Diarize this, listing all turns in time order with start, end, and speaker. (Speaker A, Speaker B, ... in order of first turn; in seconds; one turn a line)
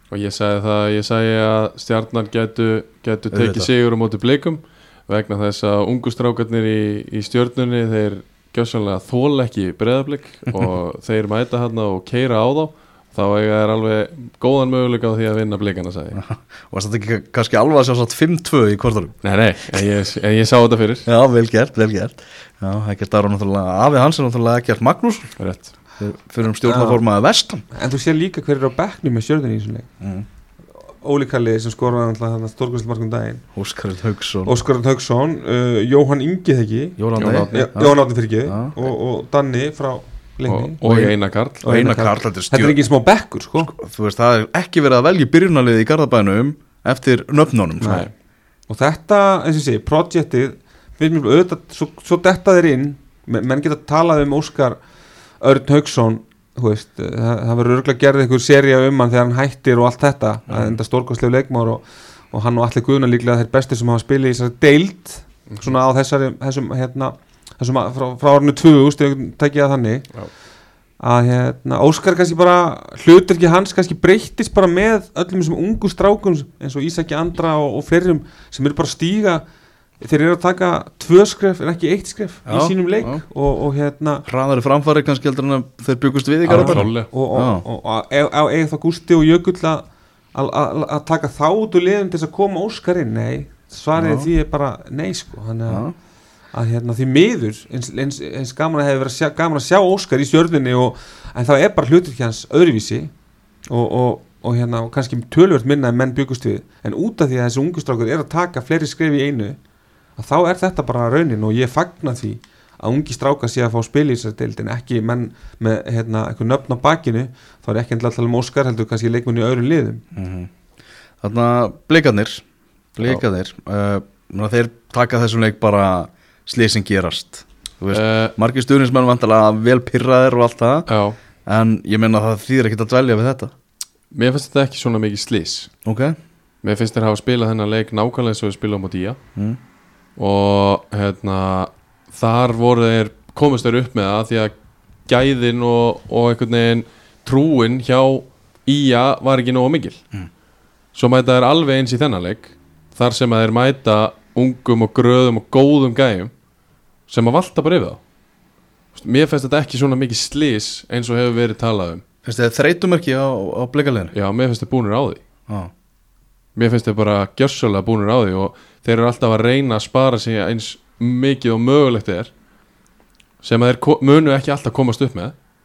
Speaker A: 0.1-16.2
Speaker B: 3.3-3.7
Speaker B: 16.1-19.2
Speaker A: 19.2-21.1
Speaker B: 21.1-25.4
Speaker A: 25.4-25.7
Speaker B: 26.0-27.6
Speaker C: 26.6-27.0
Speaker C: 27.7-29.9
Speaker B: 30.0-30.3
Speaker C: 30.9-33.5
Speaker B: 33.5-34.5
Speaker C: 34.5-40.8
Speaker B: 37.0-38.8
Speaker A: 37.2-38.0
Speaker A: 40.5-41.6
Speaker B: 40.8-42.8
Speaker C: 41.6-43.7
Speaker B: 43.6-48.0
Speaker A: 47.8-48.1
Speaker C: 48.7-54.8
Speaker C: 55.4-70.2
Speaker C: 71.0-79.4
Speaker C: 80.0-84.2
Speaker B: 82.5-83.2
Speaker B: 84.3-87.6
Speaker A: 86.5-87.1
Speaker C: 86.5-95.9
Speaker B: 94.0-94.3
Speaker B: 95.7-96.0
Speaker C: 96.5-103.1
Speaker C: 103.7-109.6
Speaker C: 110.2-120.0
Speaker B: 120.2-120.5
Speaker B: 121.2-122.5
Speaker B: 123.0-130.9
Speaker A: 127.9-128.3
Speaker A: 130.9-131.2
Speaker B: 131.5-133.5
Speaker A: 134.1-135.7
Speaker B: 135.8-136.2
Speaker A: 136.6-139.2
Speaker A: 140.2-144.5
Speaker A: 145.1-150.0
Speaker A: 150.9-156.3
Speaker A: 157.1-158.0
Speaker A: 158.9-162.0
Speaker B: 162.2-164.1
Speaker A: 164.1-165.2
Speaker A: 166.6-172.3
Speaker A: 173.4-175.3